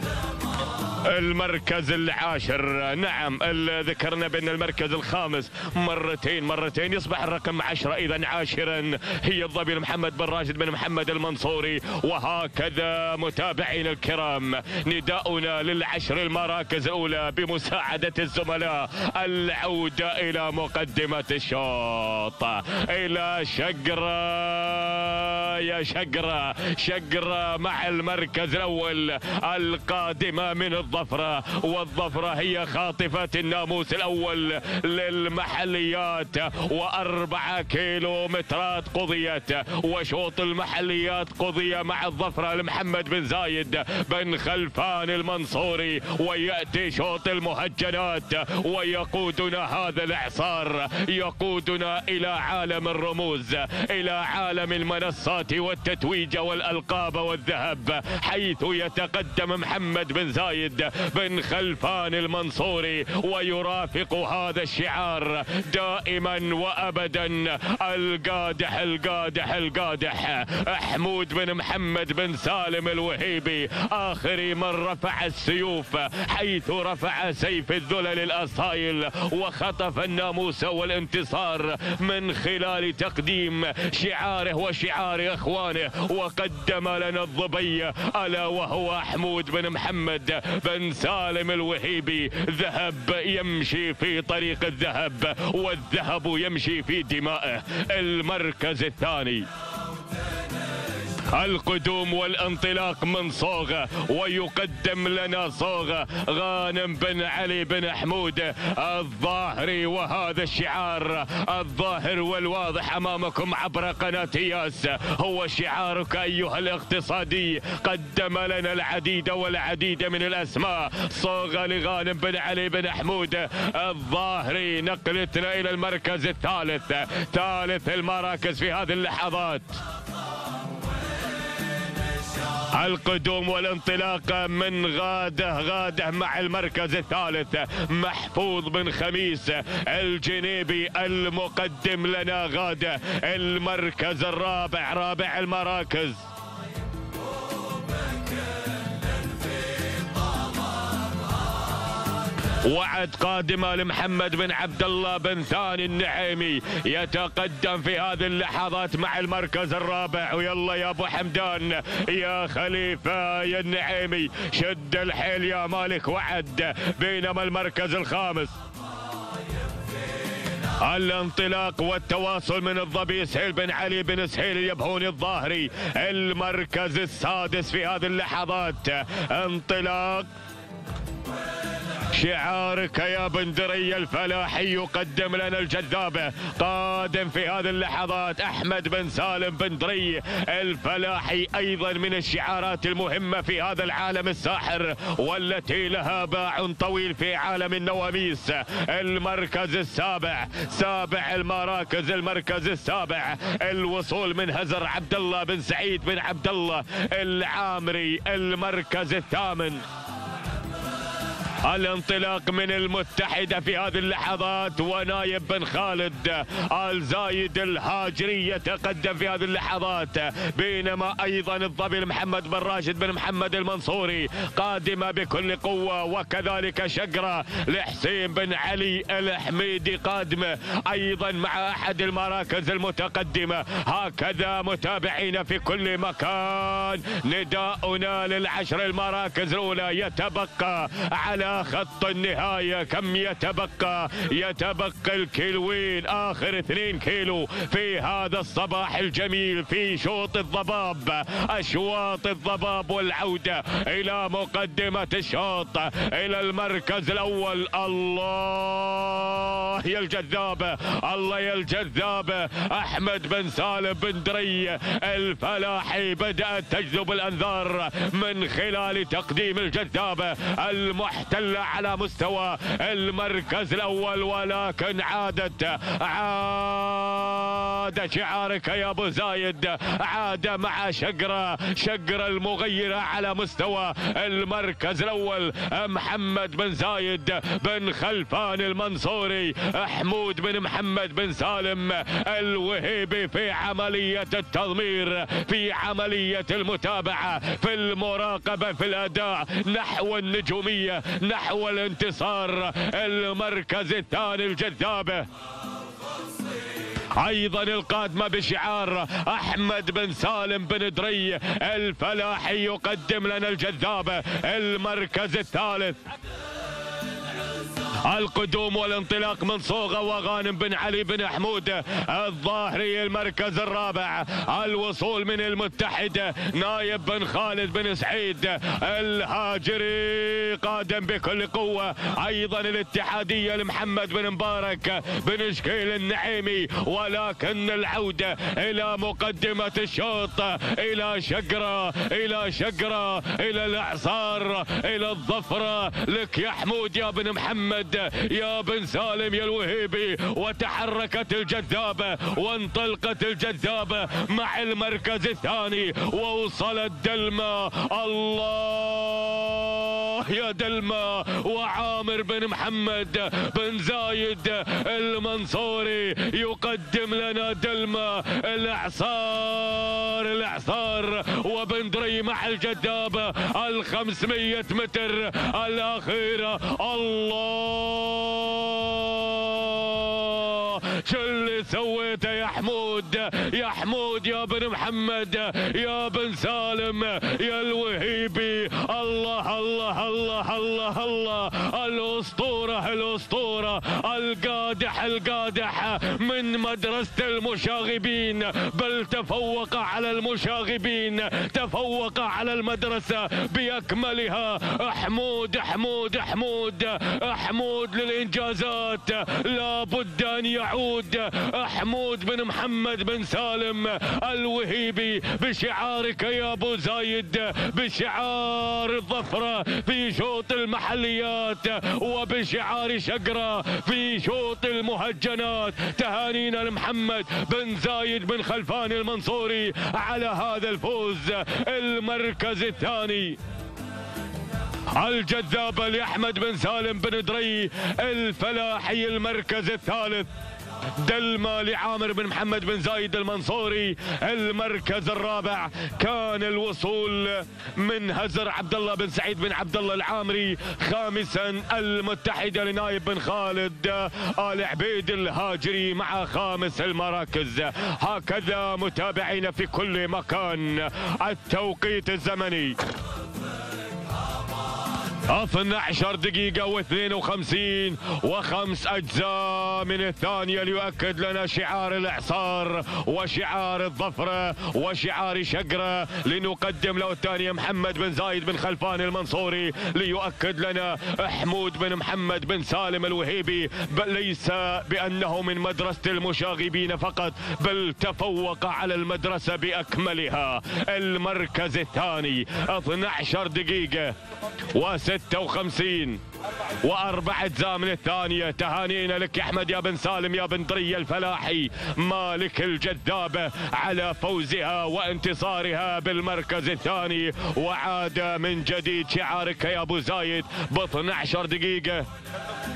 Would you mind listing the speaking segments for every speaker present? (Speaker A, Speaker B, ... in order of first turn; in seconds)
Speaker A: 1.0-99.5, 101.3-129.8, 132.6-146.3, 152.6-168.6, 170.8-180.3, 182.0-209.8, 211.6-305.3, 307.1-316.0, 318.0-433.4, 434.9-440.3, 441.0-462.8, 465.3-494.2, 494.7-496.2, 496.8-512.1